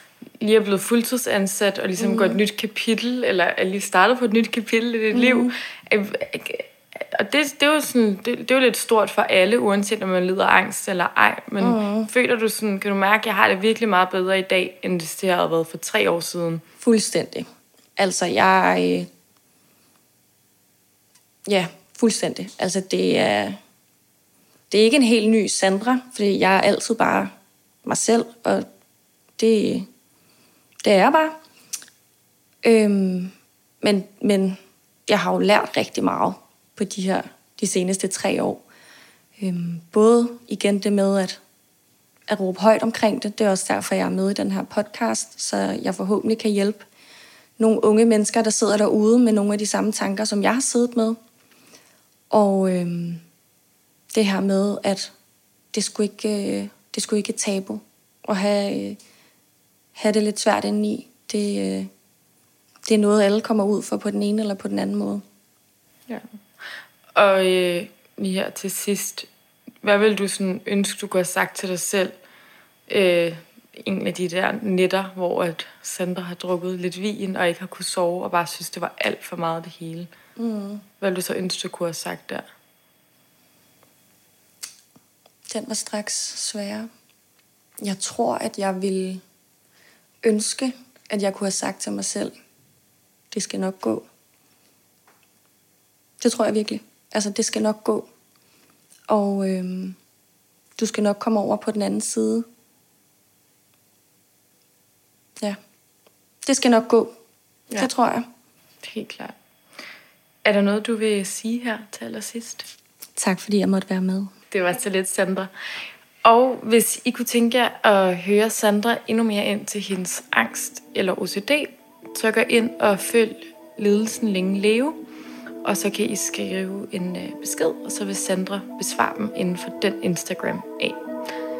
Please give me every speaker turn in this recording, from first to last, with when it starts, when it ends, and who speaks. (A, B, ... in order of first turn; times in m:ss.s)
0:00.4-0:16.6 A
0:02.0-0:02.4 B
0:05.1-0:05.5 B
0:11.6-0:12.1 B
0:16.8-0:19.1 B
0:21.5-0:23.6 B
0:24.7-0:27.3 B
0:27.8-0:28.6 B
0:29.4-0:29.9 B
0:30.8-0:31.4 B
0:32.6-0:38.6 B
0:39.4-0:41.4 B
0:42.3-0:46.8 B
0:47.6-0:51.2 B
0:52.3-0:53.2 B
0:54.1-0:55.1 B
0:55.7-0:59.0 B
0:59.9-1:01.9 B
1:02.9-1:05.2 B
1:07.1-1:09.3 A
1:09.8-1:12.1 A
1:12.9-1:20.1 A
1:20.4-1:20.8 B
1:21.0-1:22.4 A
1:25.5-1:26.9 B
1:27.8-1:29.2 B
1:30.2-1:32.3 B
1:33.3-1:34.1 B
1:36.2-1:38.1 B
1:39.1-1:40.0 B
1:40.8-1:42.4 B
1:46.4-1:47.1 B
1:47.8-1:48.3 B
1:48.8-1:49.3 A
1:50.4-1:52.7 A
1:53.2-1:54.3 B
1:54.5-1:55.5 A
1:56.2-2:05.0 A
2:05.6-2:11.1 A